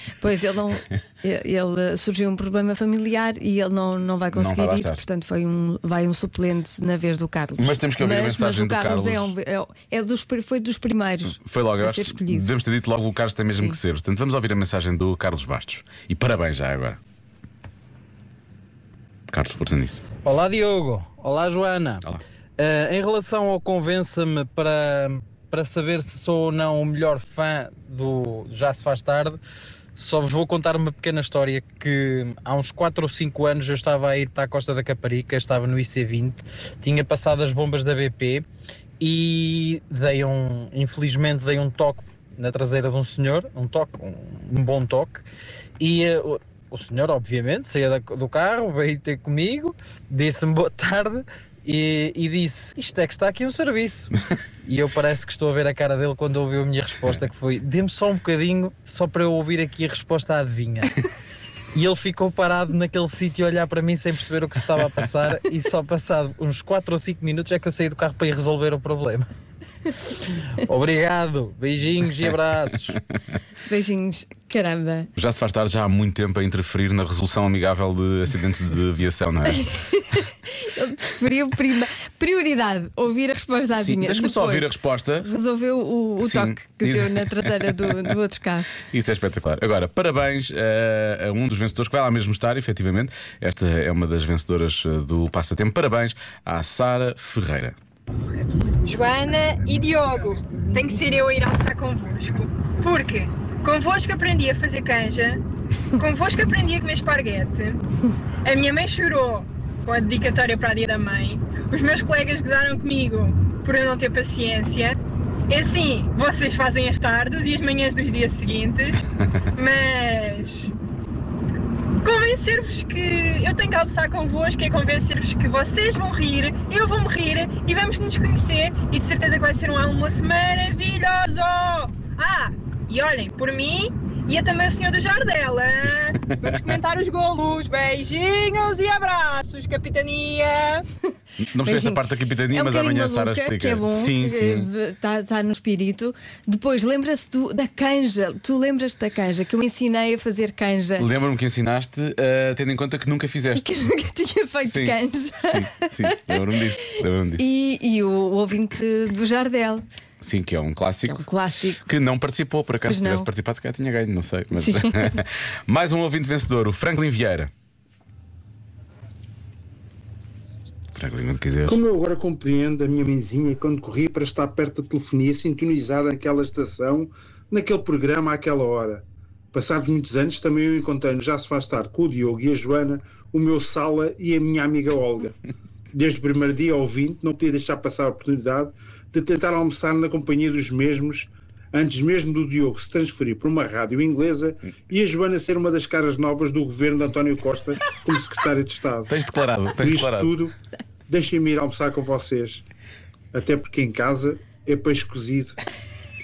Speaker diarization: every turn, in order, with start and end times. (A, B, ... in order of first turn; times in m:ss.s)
0:00.2-0:12.5 A
0:04.3-0:05.0 B
0:07.6-0:09.3 B
0:11.3-0:17.0 B
0:13.5-0:13.8 A
0:19.3-0:20.0 B
0:20.2-0:22.0 C
0:22.6-0:29.4 C
0:29.9-0:38.4 C
0:39.0-0:45.2 C
0:45.8-1:00.9 C
1:01.7-1:09.3 C
1:10.6-1:12.9 C
1:13.7-1:15.1 A
1:15.2-1:19.6 B
1:19.5-1:28.7 A
1:23.7-1:25.3 B
1:26.2-1:28.1 B
1:28.8-1:37.8 B
1:38.7-1:45.4 D
1:46.0-1:47.8 D
1:48.4-1:55.0 D
1:55.5-1:59.0 D
1:59.6-2:00.7 D
2:02.0-2:20.8 D
2:16.2-2:16.8 B
2:21.4-2:24.7 B
2:21.6-2:31.1 A
2:31.0-2:33.7 B
2:33.6-2:36.4 A
2:34.6-2:37.4 B
2:37.4-2:39.8 A
2:40.2-2:41.2 B
2:41.0-2:41.8 A
2:41.8-2:47.5 B
2:42.8-2:43.3 A
2:44.5-2:45.2 A
2:50.9-2:51.8 B
2:51.6-3:05.4 E
3:05.9-3:19.1 E
3:19.1-3:20.4 B
3:19.8-3:20.5 E
3:21.1-3:22.6 E
3:23.3-3:25.6 E